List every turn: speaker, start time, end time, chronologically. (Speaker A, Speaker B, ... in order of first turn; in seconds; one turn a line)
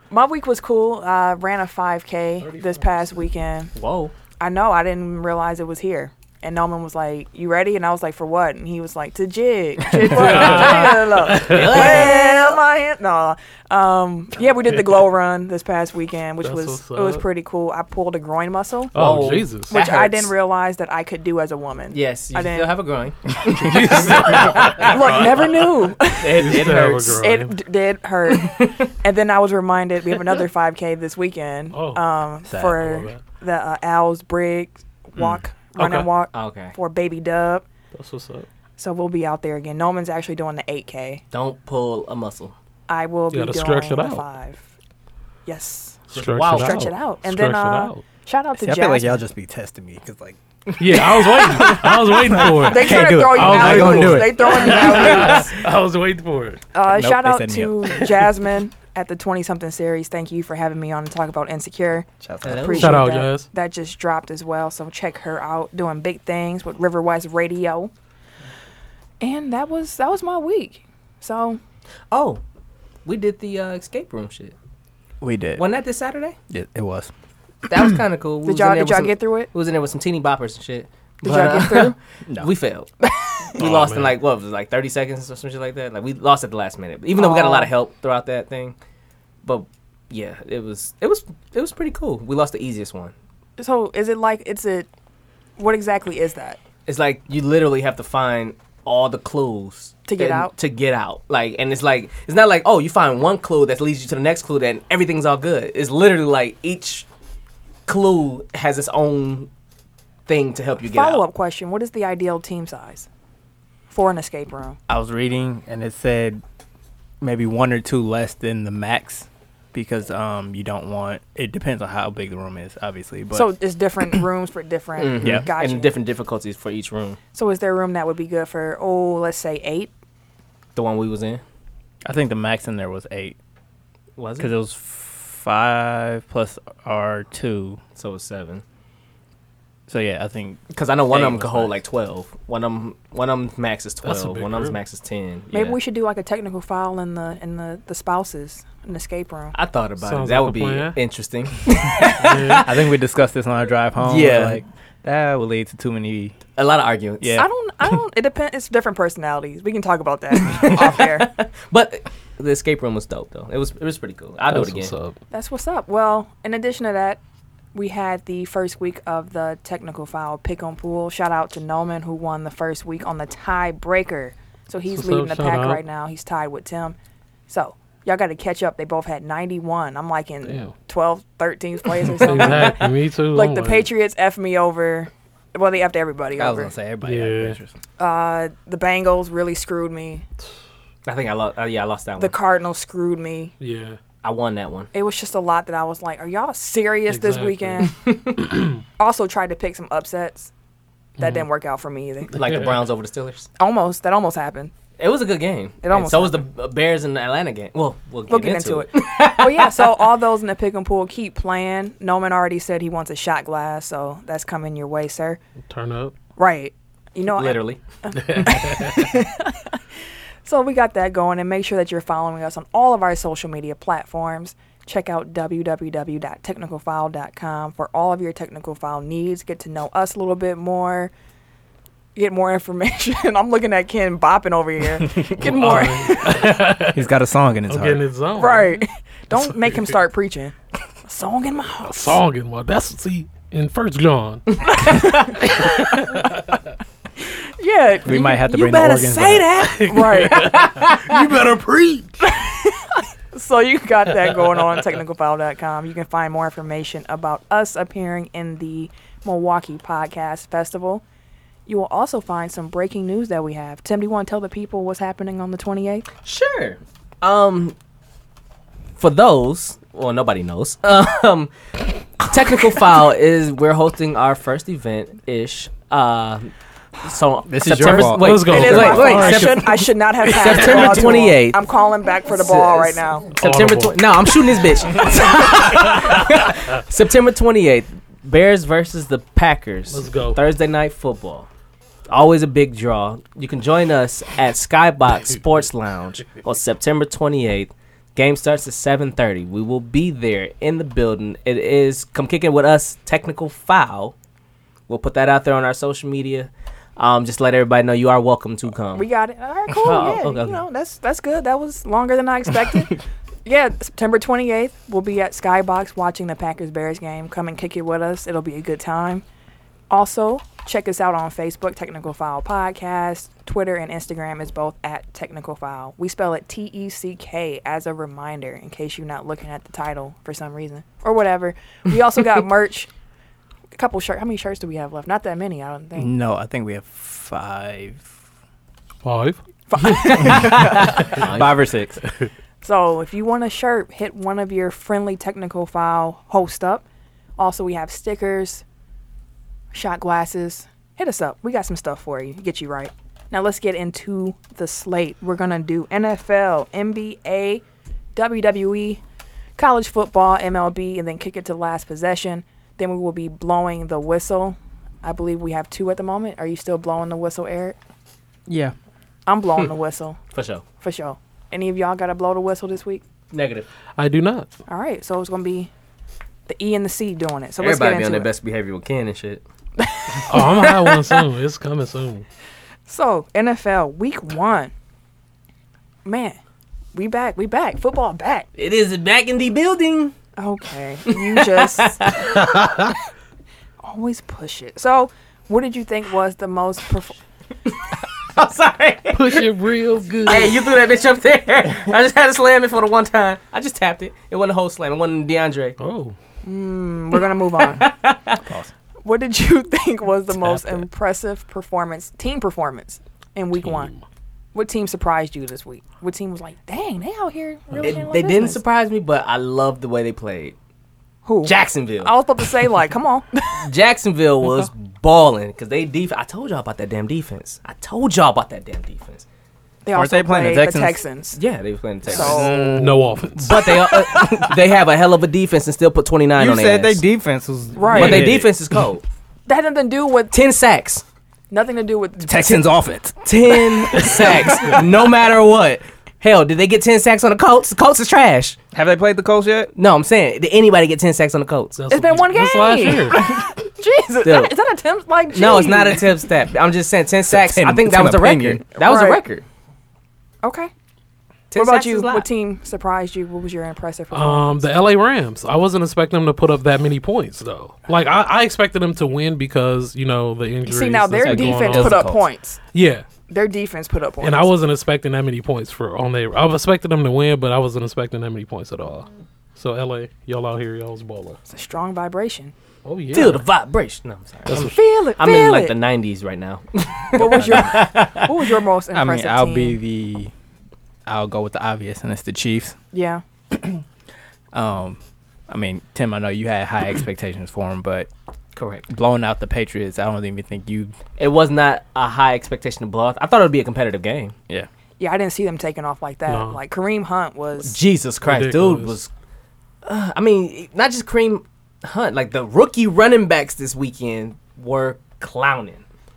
Speaker A: 0.1-3.7
Speaker B: 2.4-2.8
Speaker C: 3.8-4.1
Speaker A: 4.4-18.9
Speaker B: 10.0-12.1
Speaker C: 10.2-12.6
Speaker B: 16.4-17.2
Speaker B: 18.9-19.7
Speaker C: 18.9-20.3
Speaker A: 19.7-22.7
Speaker C: 21.9-25.5
Speaker B: 23.5-25.4
Speaker A: 24.8-37.7
Speaker C: 26.2-27.2
Speaker B: 26.3-27.6
Speaker C: 28.4-28.8
Speaker B: 31.7-32.0
Speaker D: 32.5-32.9
Speaker B: 32.7-33.2
Speaker B: 35.2-36.1
Speaker C: 36.3-36.7
Speaker B: 37.9-38.5
Speaker A: 38.8-41.2
Speaker C: 41.3-42.5
Speaker A: 42.9-44.7
Speaker B: 43.3-44.2
Speaker A: 45.5-49.2
Speaker B: 46.1-48.0
Speaker C: 46.1-46.9
Speaker D: 48.6-55.4
Speaker B: 50.8-56.6
Speaker A: 52.6-55.5
Speaker C: 52.7-55.5
Speaker A: 56.7-67.9
Speaker D: 56.9-58.1
Speaker D: 62.2-62.8
Speaker C: 62.4-63.0
Speaker B: 62.8-63.5
Speaker A: 69.2-71.6
Speaker C: 72.1-72.4
Speaker C: 73.0-74.5
Speaker D: 75.2-75.7
Speaker C: 75.6-76.4
Speaker D: 76.5-77.1
Speaker C: 77.7-82.9
Speaker A: 78.4-79.5
Speaker A: 81.2-82.0
Speaker A: 83.0-83.6
Speaker C: 83.5-88.8
Speaker B: 83.6-84.2
Speaker A: 87.2-87.7
Speaker C: 89.4-93.1
Speaker A: 93.6-94.9
Speaker A: 95.6-96.6
Speaker C: 96.9-107.1
Speaker A: 100.1-100.5
Speaker C: 107.9-109.5
Speaker C: 110.3-111.2
Speaker A: 110.8-113.1
Speaker A: 113.9-114.8
Speaker D: 114.9-116.4
Speaker D: 117.2-123.5
Speaker A: 123.3-125.9
Speaker C: 125.0-127.2
Speaker D: 125.2-125.5
Speaker A: 127.3-129.9
Speaker C: 130.8-131.4
Speaker D: 132.1-133.4
Speaker C: 134.2-134.5
Speaker D: 134.4-137.8
Speaker C: 138.0-138.6
Speaker D: 139.9-141.8
Speaker C: 140.7-145.8
Speaker B: 144.0-144.8
Speaker A: 145.5-149.6
Speaker C: 149.5-152.8
Speaker B: 150.0-151.0
Speaker B: 152.0-152.7
Speaker D: 152.6-156.4
Speaker C: 154.0-154.6
Speaker C: 156.6-157.4
Speaker D: 157.2-157.5
Speaker A: 157.4-161.3
Speaker C: 160.3-164.9
Speaker B: 164.5-165.2
Speaker A: 165.3-167.2
Speaker A: 167.7-177.0
Speaker B: 174.9-175.8
Speaker A: 177.5-186.7
Speaker B: 180.5-180.7
Speaker B: 182.2-183.9
Speaker C: 182.3-182.7
Speaker D: 186.4-187.7
Speaker B: 187.0-187.6
Speaker A: 188.0-190.2
Speaker C: 191.1-192.4
Speaker A: 192.2-193.5
Speaker B: 193.6-194.0
Speaker C: 194.2-194.9
Speaker A: 194.9-197.9
Speaker B: 197.1-197.9
Speaker C: 197.9-198.4
Speaker B: 198.5-198.8
Speaker A: 199.0-200.5
Speaker A: 201.2-202.4
Speaker B: 201.2-201.4
Speaker C: 202.3-203.5
Speaker A: 203.6-204.7
Speaker C: 205.0-210.0
Speaker A: 205.8-206.5
Speaker A: 208.3-215.4
Speaker B: 215.7-216.2
Speaker A: 216.4-219.8
Speaker C: 217.3-218.3
Speaker B: 218.2-219.0
Speaker A: 220.4-231.1
Speaker A: 232.2-236.5
Speaker B: 235.4-237.1
Speaker D: 236.9-238.1
Speaker B: 237.7-238.8
Speaker A: 238.3-242.2
Speaker B: 239.3-239.9
Speaker B: 241.9-245.0
Speaker C: 244.7-245.5
Speaker A: 244.7-246.0
Speaker B: 245.6-246.6
Speaker A: 247.3-250.7
Speaker D: 248.0-249.6
Speaker C: 248.7-251.2
Speaker B: 249.6-252.2
Speaker A: 252.2-261.0
Speaker A: 261.7-266.1
Speaker C: 266.2-267.8
Speaker C: 269.0-271.5
Speaker C: 272.2-276.5
Speaker C: 277.0-281.6
Speaker D: 277.5-279.3
Speaker B: 277.9-281.3
Speaker A: 278.5-283.4
Speaker C: 282.3-291.5
Speaker B: 283.4-283.9
Speaker B: 289.9-290.4
Speaker C: 292.1-304.1
Speaker C: 304.9-309.1
Speaker A: 308.9-319.2
Speaker C: 309.8-310.6
Speaker A: 319.9-332.9
Speaker A: 333.8-336.1
Speaker D: 336.0-338.1
Speaker B: 339.0-339.4
Speaker A: 339.7-340.9
Speaker C: 340.0-341.8
Speaker D: 340.3-342.0
Speaker A: 342.6-346.9
Speaker A: 347.4-348.6
Speaker A: 349.7-357.6
Speaker A: 358.2-359.0
Speaker A: 359.6-367.8
Speaker D: 368.5-368.8
Speaker A: 369.3-370.2
Speaker C: 370.3-370.6
Speaker A: 370.8-373.0
Speaker C: 373.3-373.7
Speaker B: 374.0-374.5
Speaker A: 374.7-375.7
Speaker A: 376.5-378.3
Speaker C: 377.6-379.4
Speaker A: 379.8-380.7
Speaker B: 380.3-382.3
Speaker A: 382.9-384.7
Speaker A: 386.1-386.4
Speaker A: 386.9-388.5
Speaker C: 388.6-390.1
Speaker A: 390.4-392.2
Speaker C: 391.1-392.4
Speaker A: 393.8-397.2
Speaker C: 397.7-399.5
Speaker B: 399.1-400.6
Speaker C: 400.3-405.8
Speaker B: 405.8-406.2
Speaker A: 406.4-407.9
Speaker C: 407.6-408.4
Speaker D: 408.4-408.7
Speaker A: 409.0-413.9
Speaker B: 410.3-410.8
Speaker B: 413.6-414.0
Speaker A: 414.5-418.6
Speaker C: 417.7-420.6
Speaker A: 421.3-423.7
Speaker C: 421.4-422.1
Speaker C: 423.6-429.2
Speaker A: 429.9-431.4
Speaker D: 429.9-431.0
Speaker C: 431.4-432.7
Speaker A: 432.1-432.6
Speaker D: 432.1-434.6
Speaker B: 432.8-433.6
Speaker C: 433.4-437.0
Speaker D: 436.4-438.6
Speaker A: 437.8-438.4
Speaker C: 437.9-439.0
Speaker A: 439.5-440.4
Speaker C: 440.3-441.0
Speaker A: 441.5-442.6
Speaker D: 442.3-444.3
Speaker C: 443.2-448.6
Speaker A: 443.9-444.8
Speaker D: 448.7-449.7
Speaker C: 449.8-451.8
Speaker B: 451.8-453.2
Speaker A: 451.9-456.1
Speaker C: 454.2-454.5
Speaker C: 455.3-459.4
Speaker D: 457.3-458.6
Speaker A: 458.8-459.2
Speaker A: 460.4-460.7
Speaker C: 461.5-462.3
Speaker A: 461.6-464.6
Speaker B: 464.1-472.1
Speaker A: 470.7-472.6
Speaker D: 471.2-472.2
Speaker B: 472.7-473.1
Speaker A: 473.3-474.5
Speaker B: 474.2-481.4
Speaker A: 481.5-482.5
Speaker B: 482.9-483.4
Speaker C: 483.1-488.4
Speaker B: 484.5-484.8
Speaker A: 484.6-485.8
Speaker A: 487.1-489.8
Speaker D: 488.9-490.3
Speaker D: 491.1-492.8
Speaker A: 492.9-493.2
Speaker D: 493.5-493.8
Speaker D: 494.5-498.1
Speaker C: 498.6-498.9
Speaker D: 498.9-500.9
Speaker C: 501.2-504.3
Speaker A: 505.0-507.8
Speaker B: 506.3-506.6
Speaker C: 507.6-509.1
Speaker B: 508.2-509.0
Speaker C: 509.9-515.8